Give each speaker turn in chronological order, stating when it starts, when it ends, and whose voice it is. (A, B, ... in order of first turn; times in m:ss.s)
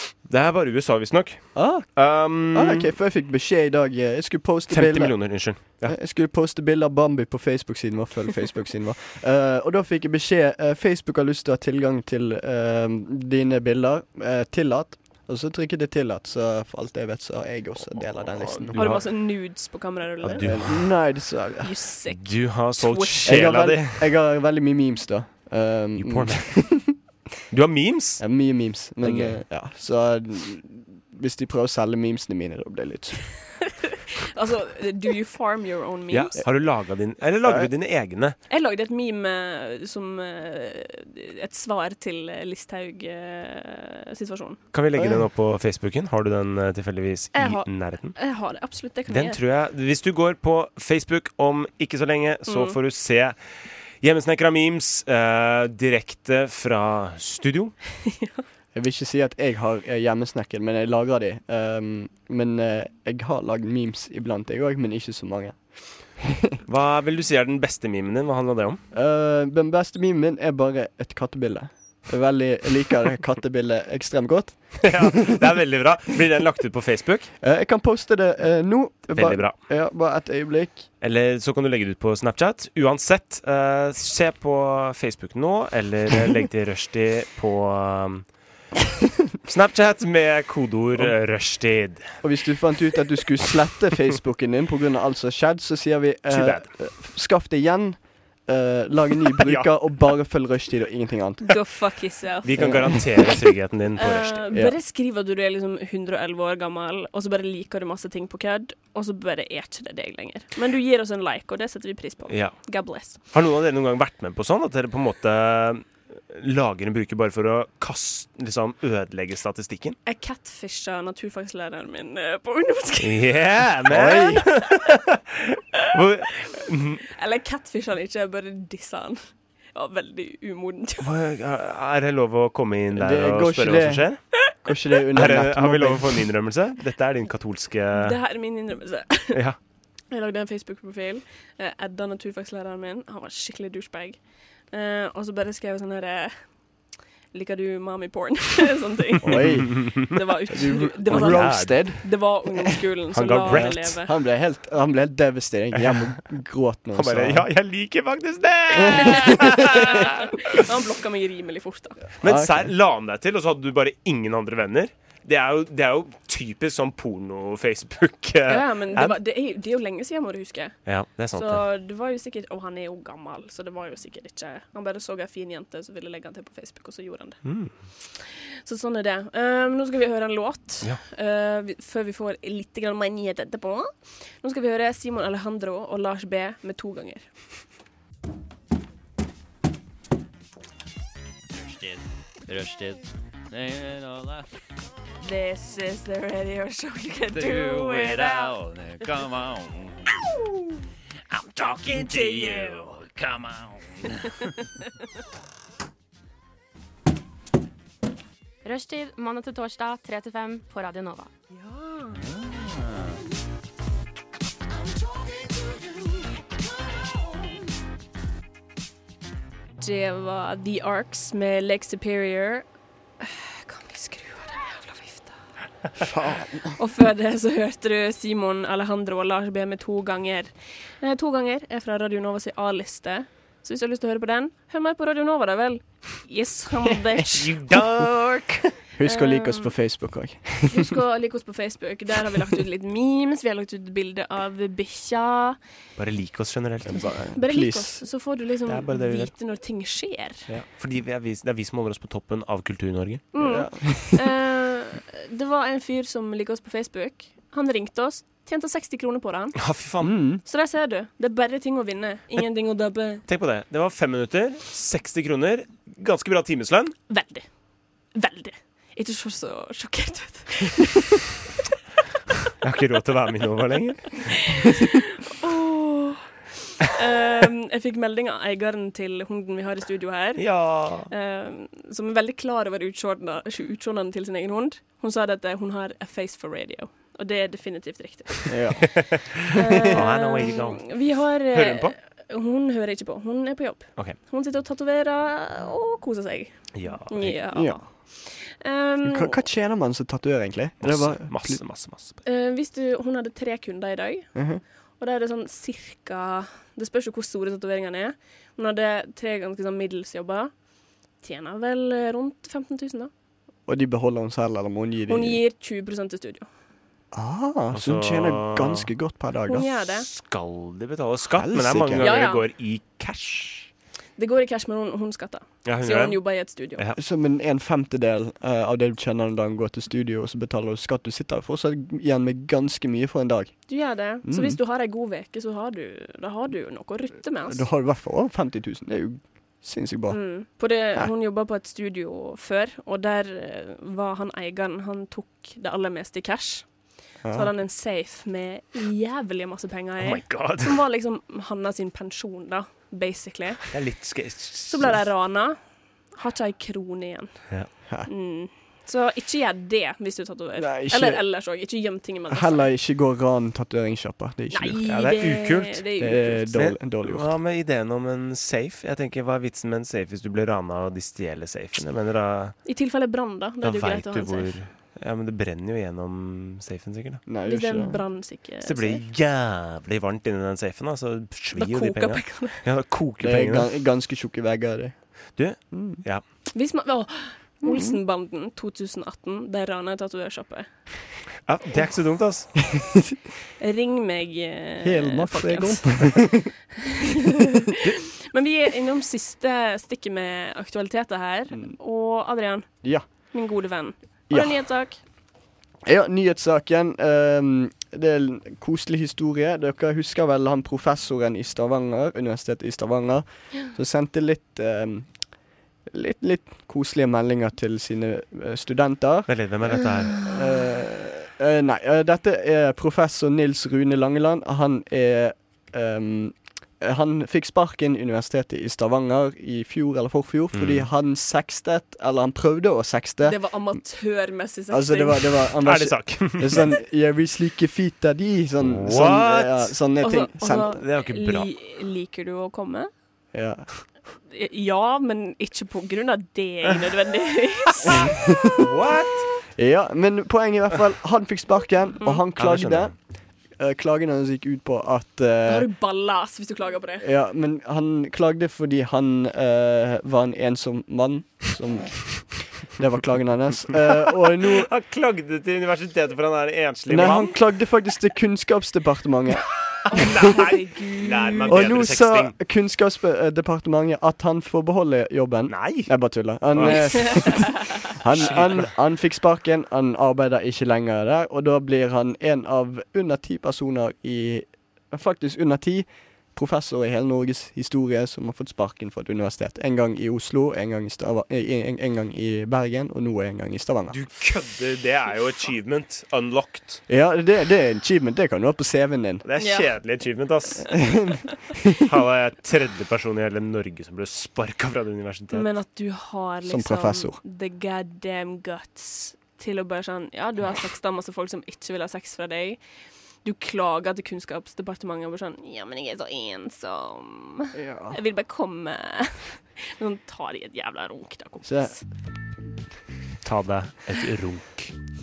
0:00.2-0:02.9 A
0:01.5-0:18.9 B
0:04.7-0:05.9 A
0:17.9-0:19.2 A
0:18.7-0:20.9 C
0:20.2-0:20.9 A
0:20.4-0:21.7 B
0:21.6-0:23.5 C
0:22.1-0:24.1 A
0:23.2-0:26.9 B
0:26.0-0:26.9 A
0:27.5-0:28.2 A
0:28.2-0:33.6 B
0:29.0-0:29.4 A
0:34.1-0:36.4 C
0:36.1-0:38.4 A
0:37.4-0:37.7 B
0:38.5-0:44.6 C
0:44.7-0:48.2 A
0:45.0-0:45.3 B
0:47.3-0:49.4 C
0:49.1-0:53.4 A
0:52.5-0:52.8 C
0:54.0-0:57.8 A
0:58.0-0:58.4 C
0:58.7-1:06.6 B
1:06.6-1:08.8 A
1:08.9-1:15.3 B
1:14.8-1:17.3 A
1:17.4-1:20.9 B
1:19.1-1:19.6 A
1:21.0-1:28.3 A
1:29.4-1:32.1 A
1:32.2-1:41.6 B
1:36.3-1:36.7 A
1:39.4-1:40.0 A
1:41.4-1:42.8 C
1:42.4-1:44.5 A
1:42.6-1:43.0 B
1:44.0-1:53.2 C
1:52.3-2:00.0 A
2:00.0-2:03.4 C
2:03.0-2:07.1 A
2:03.9-2:04.5 B
2:07.1-2:09.2 C
2:09.7-2:11.1 C
2:11.0-2:14.5 A
2:12.9-2:14.0 B
2:14.6-2:16.3 B
2:15.1-2:18.2 A
2:17.9-2:19.4 C
2:20.1-2:26.6 C
2:27.3-2:34.1 C
2:29.2-2:32.6 B
2:29.3-2:30.1 A
2:31.1-2:32.0 A
2:33.1-2:34.0 A
2:33.4-2:37.5 B
2:36.9-2:40.5 A
2:38.8-2:39.3 B
2:39.0-2:42.0 C
2:42.2-2:49.2 A
2:42.2-2:42.7 B
2:48.5-3:07.3 C
2:50.8-2:51.6 A
2:57.4-2:57.7 A
3:11.5-3:14.5 D
3:15.2-3:18.6 C
3:17.3-3:20.3 D
3:21.3-3:24.6 D
3:21.9-3:23.0 C
3:28.6-3:31.3 E
3:32.1-3:33.2 D
3:39.8-3:42.7 C
3:43.2-3:45.4 C
3:46.0-3:46.8 B
3:46.7-3:57.6 C
3:57.3-3:58.7 A
3:58.9-4:01.0 B
3:59.0-3:59.7 C
4:00.7-4:05.6 C
4:06.0-4:07.1 A
4:06.9-4:08.1 B
4:07.0-4:10.5 C
4:08.7-4:09.3 A
4:10.5-4:13.4 A
4:13.3-4:19.6 C
4:13.4-4:14.2 B
4:19.6-4:20.1 A
4:20.0-4:20.4 B
4:20.4-4:23.2 C
4:23.3-4:27.0 A
4:27.1-4:27.4 C
4:28.1-4:31.3 C
4:32.6-4:34.6 A
4:34.3-4:49.0 C
4:40.4-4:41.1 A
4:48.5-4:49.1 B
4:49.5-4:59.4 C
4:49.9-4:51.9 A
4:56.7-4:57.4 A
4:57.5-4:57.8 B
4:59.0-5:01.6 B
5:00.8-5:02.2 A
5:02.2-5:04.3 C
5:04.3-5:04.6 B
5:05.0-5:10.5 C
5:11.2-5:13.1 C
5:13.7-5:15.4 B
5:15.1-5:16.5 C
5:17.1-5:19.7 B
5:17.7-5:18.9 A
5:19.5-5:20.1 C
5:20.1-5:23.7 A
5:21.3-5:22.1 B
5:22.0-5:22.4 C
5:24.2-5:26.8 C
5:25.6-5:26.2 A
5:27.0-5:33.7 B
5:33.7-5:37.6 C
5:34.2-5:34.6 B
5:37.5-5:40.2 B
5:40.1-5:46.7 C
5:47.2-5:47.5 B
5:47.3-5:53.8 C
5:50.0-5:50.8 A
5:53.7-5:55.0 A
5:54.7-5:55.6 C
5:56.1-5:57.5 C
5:58.0-6:02.7 C
6:00.6-6:01.2 B
6:02.3-6:04.8 B
6:04.5-6:06.6 C
6:04.9-6:05.8 A
6:06.0-6:07.3 B
6:06.5-6:12.6 A
6:12.6-6:14.6 C
6:13.6-6:17.2 A
6:17.2-6:18.0 B
6:17.4-6:19.0 C
6:18.6-6:23.7 A
6:21.5-6:22.6 C
6:23.2-6:25.2 B
6:25.4-6:26.2 A
6:25.7-6:26.0 B
6:26.5-6:30.8 C
6:27.6-6:28.0 B
6:31.4-6:32.6 A
6:33.6-6:36.3 C
6:34.8-6:36.5 B
6:36.9-6:45.0 C
6:44.3-6:44.6 B
6:45.8-6:55.1 B
6:55.9-7:13.4 B
6:59.3-7:00.4 A
7:10.5-7:10.9 A
7:13.2-7:15.5 C
7:14.7-7:20.8 B
7:15.6-7:16.7 A
7:18.6-7:19.7 A
7:20.0-7:22.9 C
7:20.7-7:21.5 A
7:23.3-7:23.7 B
7:24.3-7:28.5 C
7:27.9-7:28.6 B
7:28.6-7:29.3 A
7:29.5-7:33.0 B
7:32.4-7:32.9 A
7:33.5-7:35.7 B
7:35.4-7:37.1 C
7:37.0-7:44.7 B
7:44.5-7:47.4 A
7:46.9-7:49.5 B
7:49.8-7:52.3 A
7:49.9-7:51.7 C
7:51.5-8:14.0 B
7:55.5-7:57.5 A
7:56.6-7:57.7 C
7:58.1-7:58.7 A
8:13.9-8:16.8 A
8:16.9-8:19.2 B
8:19.2-8:25.5 A
8:19.4-8:19.7 C
8:20.7-8:21.8 B
8:25.3-8:32.6 C
8:26.4-8:27.2 B
8:33.2-8:41.8 C
8:37.5-8:38.0 B
8:41.4-8:41.7 B
8:43.2-8:44.8 A